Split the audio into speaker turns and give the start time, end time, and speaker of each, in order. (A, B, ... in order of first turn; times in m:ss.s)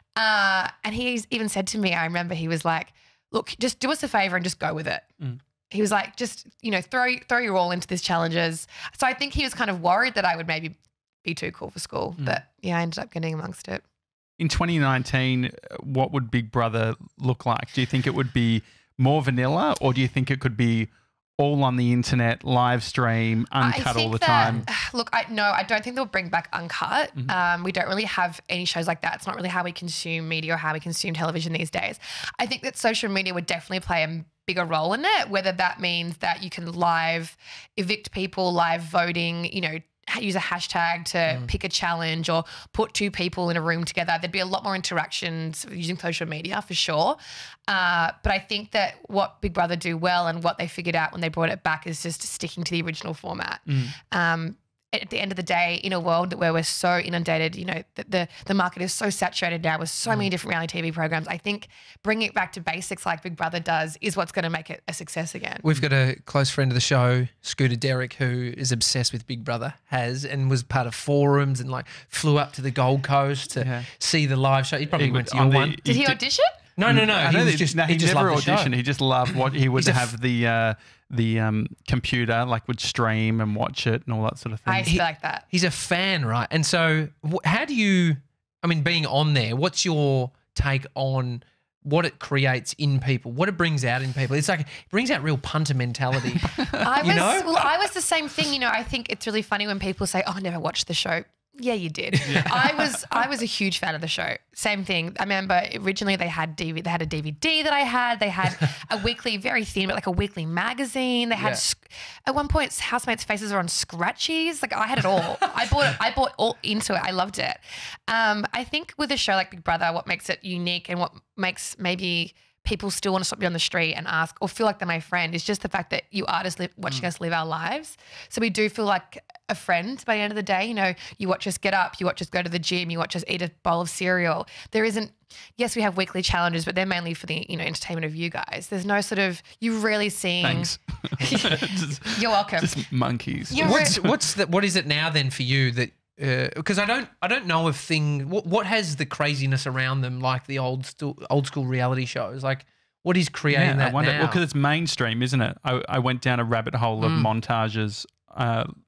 0:00.2-0:05.1 A
0:05.7-0:13.8 A
0:14.4-0:24.6 B
0:23.6-1:05.7 A
0:53.7-0:53.9 B
1:05.6-1:15.8 C
1:13.5-1:13.9 B
1:15.0-1:16.2 B
1:15.8-1:16.6 A
1:16.8-1:18.7 C
1:16.8-1:24.9 B
1:19.8-1:20.1 C
1:24.6-1:25.4 A
1:24.8-1:37.7 C
1:36.7-2:22.8 A
1:42.2-1:42.9 B
1:51.3-1:51.6 C
2:20.4-2:24.1 B
2:23.5-2:23.9 A
2:23.6-2:34.4 C
2:33.5-2:38.7 B
2:37.0-2:37.3 C